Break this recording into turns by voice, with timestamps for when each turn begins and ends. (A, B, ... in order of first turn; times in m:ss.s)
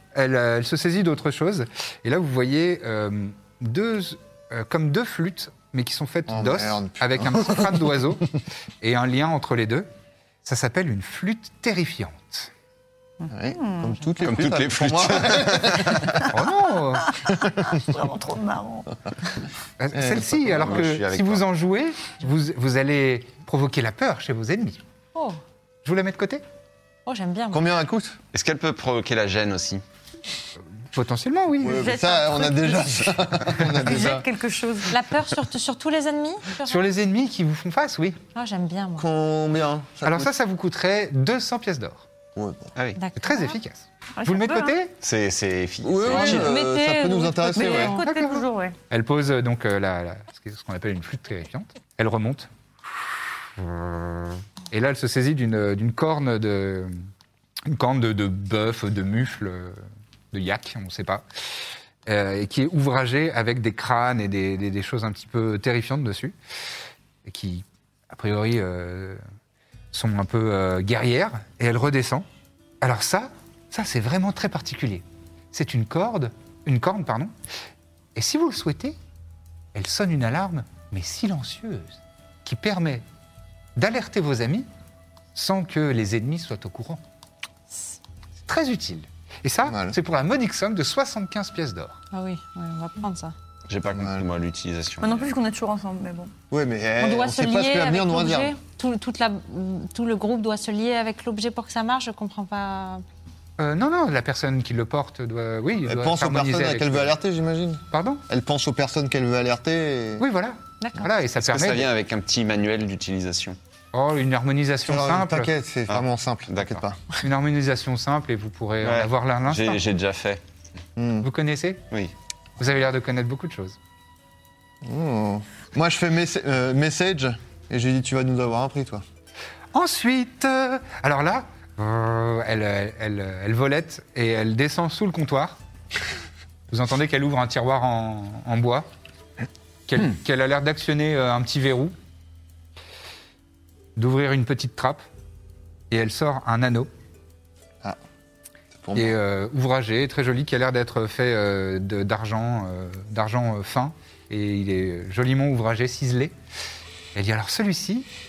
0:00.1-0:08.3 A
0:06.3-0:08.2 B
0:08.8-0:09.9 A
0:10.4-0:12.5 A
0:13.2-0:14.0 C
0:13.3-0:16.3 B
0:14.2-0:16.2 D
0:16.3-0:17.1 A
0:17.1-0:18.9 C
0:17.3-0:17.8 B
0:19.8-0:24.8 A
0:19.9-0:20.9 B
0:20.3-0:21.4 D
0:25.8-0:26.4 A
0:27.1-0:27.6 E
0:27.5-0:28.2 B
0:28.3-0:29.8 D
0:30.9-0:32.0 A
0:31.6-0:34.3 B
0:31.6-0:35.0 C
0:34.9-0:36.9 E
0:36.6-0:38.2 A
0:38.4-0:39.1 E
0:39.0-0:40.3 B
0:40.0-0:42.0 A
0:42.4-0:42.7 B
0:43.0-0:43.6 E
0:43.2-0:45.0 A
0:44.2-0:44.7 C
0:45.0-0:46.5 D
0:45.8-0:48.0 B
0:46.1-0:46.9 C
0:46.3-0:48.1 E
0:47.4-0:48.8 C
0:48.1-0:52.5 A
0:53.0-0:57.0 A
0:57.7-1:01.2 A
1:02.1-1:06.4 A
1:07.2-1:09.2 A
1:09.9-1:12.3 A
1:12.8-1:17.3 A
1:18.2-1:19.0 A
1:19.7-1:23.0 A
1:23.8-1:24.7 A
1:25.4-1:27.0 A
1:28.5-1:32.0 A
1:29.7-1:30.0 B
1:32.1-1:33.4 E
1:33.7-1:35.3 D
1:34.0-1:34.3 B
1:35.0-1:36.3 C
1:36.5-1:38.6 B
1:37.0-1:43.0 E
1:43.6-1:47.2 A
1:45.8-1:50.2 B
1:47.9-1:48.2 A
1:50.2-1:51.9 A
1:50.8-1:51.1 E
1:51.4-1:53.6 D
1:53.9-1:55.5 A
1:54.8-1:57.0 B
1:55.9-1:56.8 D
1:57.2-1:59.8 A
1:58.8-2:00.4 D
2:01.0-2:01.3 B
2:01.2-2:01.8 A
2:02.6-2:03.8 A
2:04.8-2:09.0 B
2:09.7-2:15.6 A
2:16.7-2:18.9 A
2:19.9-2:21.9 A
2:24.0-2:25.0 A
2:25.9-2:26.9 A
2:28.8-2:29.2 B
2:29.0-2:36.4 A
2:37.2-2:38.1 A